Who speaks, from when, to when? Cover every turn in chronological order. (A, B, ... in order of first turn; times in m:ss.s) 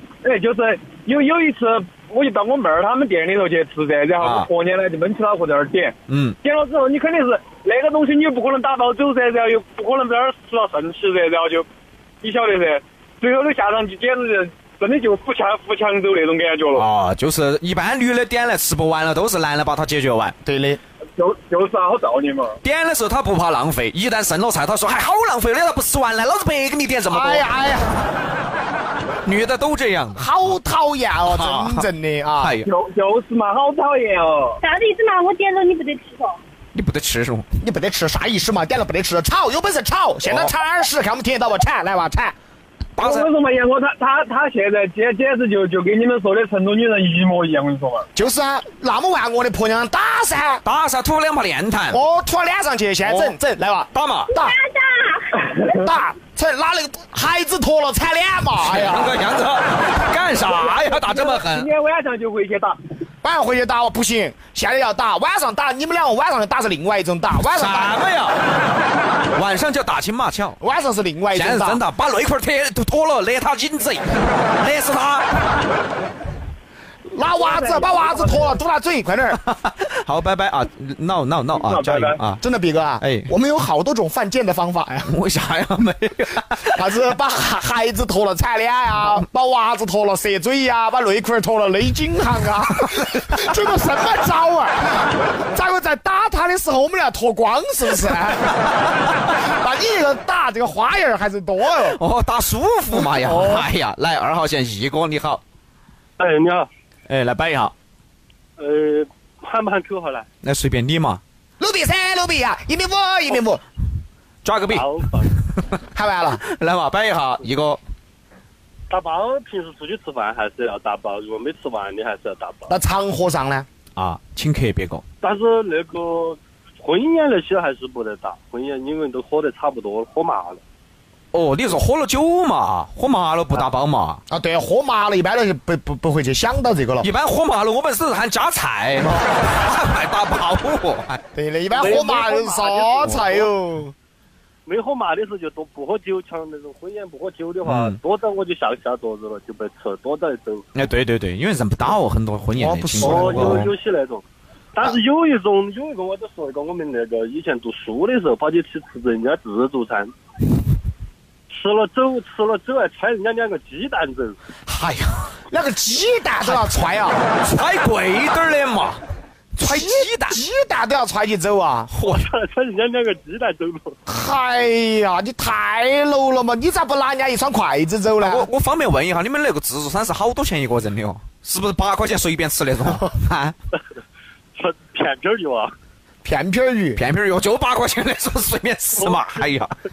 0:00.2-0:11.7 A
0:04.2-0:04.5 B
0:06.1-0:06.4 B
0:12.2-0:16.9 A
0:16.7-0:20.4 B
0:20.4-0:20.8 C
0:21.2-0:22.6 A
0:22.6-0:27.5 B
0:27.1-0:28.0 C
0:29.2-0:30.5 B
0:30.2-0:32.5 C
0:31.2-0:31.8 B
0:32.4-0:32.7 B
0:32.6-0:34.5 A
0:34.6-0:36.4 D
0:36.7-0:37.4 B
0:37.6-0:42.4 C
0:40.2-0:40.5 B
0:43.0-0:43.3 B
0:43.0-0:48.1 A
0:48.1-0:50.6 C
0:50.6-0:52.0 B
0:51.9-0:54.6 C
0:53.0-0:53.4 B
0:53.9-0:54.3 B
0:54.3-0:55.5 D
0:55.7-0:59.1 C
0:58.6-1:01.7 B
1:00.5-1:02.8 A
1:03.2-1:08.0 C
1:07.5-1:08.4 B
1:09.3-1:10.6 B
1:10.6-1:11.8 C
1:11.3-1:15.3 B
1:17.1-1:19.4 C
1:17.4-1:18.5 A
1:19.4-1:22.4 B
1:21.6-1:22.2 A
1:22.4-1:25.1 C
1:23.0-1:23.3 B
1:25.1-1:26.7 B
1:26.7-1:38.8 C
1:32.9-1:33.3 B
1:39.4-1:42.0 C
1:41.9-1:45.4 B
1:42.9-1:43.7 C
1:46.2-1:46.7 E
1:47.1-1:47.7 B
1:48.6-1:50.3 E
1:50.4-1:51.2 B
1:51.6-1:53.6 C
1:54.4-1:54.9 B
1:54.7-1:55.3 E
1:55.5-1:55.8 B
1:55.9-1:56.4 C
1:56.4-1:57.8 B
1:58.9-2:02.7 E
2:02.7-2:03.7 C
2:04.0-2:05.0 B
2:05.2-2:10.6 E
2:11.3-2:14.2 B
2:14.3-2:17.1 C
2:17.0-2:21.2 B
2:21.3-2:23.9 C
2:21.7-2:23.0 E
2:23.0-2:23.4 B
2:24.6-2:30.7 E
2:27.6-2:28.0 B
2:30.7-2:33.7 B
2:32.5-2:33.7 C
2:33.0-2:34.2 E
2:34.7-2:40.1 E
2:41.5-2:44.4 E
2:44.7-2:45.3 B
2:45.5-2:47.2 C
2:47.4-2:49.0 B
2:49.6-2:50.4 B
2:49.6-2:51.9 C
2:51.9-2:52.3 B
2:52.0-2:54.0 E
2:54.1-2:58.5 C
2:58.2-3:03.5 B
3:04.5-3:05.7 E
3:06.2-3:07.0 C
3:07.0-3:09.7 B
3:09.0-3:09.6 E